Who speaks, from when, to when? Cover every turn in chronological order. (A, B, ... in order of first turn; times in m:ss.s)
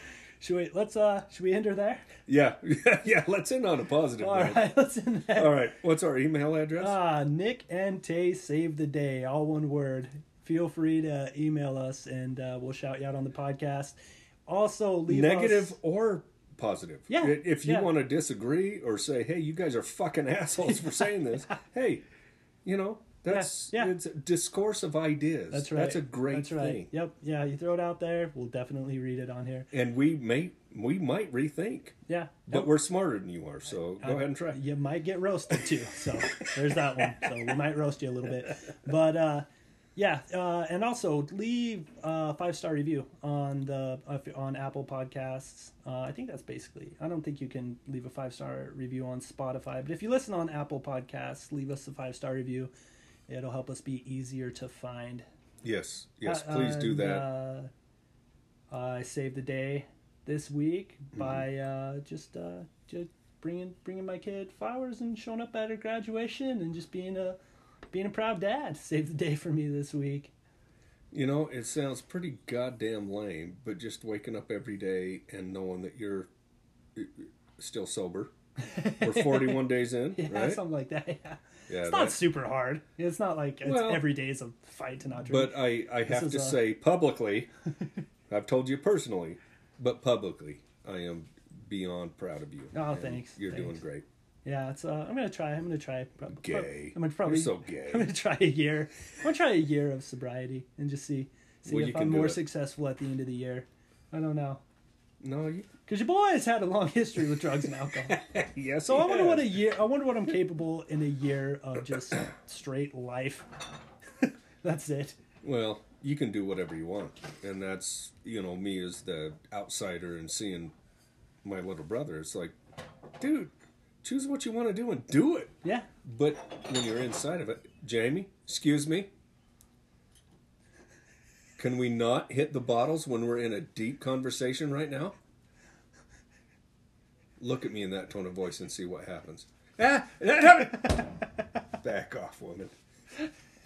0:00.4-0:02.1 A
0:02.3-0:04.7 B
0:04.2-0:05.6 A
0:05.4-0:07.0 B
0:06.8-0:15.8 A
0:15.1-0:22.0 B
0:17.1-0:17.9 A
0:20.9-0:21.5 A
0:22.6-0:26.9 B
0:23.3-0:24.0 A
0:25.5-0:29.7 A
0:29.7-0:32.0 B
0:32.1-0:32.7 A
0:32.5-0:34.6 B
0:34.0-0:52.7 A
0:53.3-0:55.3 A
0:55.6-0:57.3 B
0:56.2-0:57.7 A
0:58.7-1:07.4 A
1:01.2-1:01.4 B
1:07.9-1:10.3 A
1:11.1-1:16.3 B
1:17.0-1:18.3 B
1:18.6-1:26.6 A
1:19.0-1:20.6 B
1:21.7-1:22.3 B
1:23.6-1:24.1 B
1:25.2-1:27.5 B
1:28.3-1:34.1 B
1:32.7-1:33.8 A
1:34.4-1:44.6 A
1:36.4-1:38.1 B
1:41.6-1:42.4 B
1:45.2-1:45.7 B
1:45.9-1:48.3 A
1:48.1-1:49.6 B
1:48.8-1:53.5 A
1:54.6-1:55.2 A
1:55.4-2:00.7 B
2:01.4-2:02.6 B
2:03.2-2:03.5 B
2:04.0-2:09.1 B
2:11.6-2:15.2 B
2:17.4-2:21.1 B
2:21.8-2:22.7 B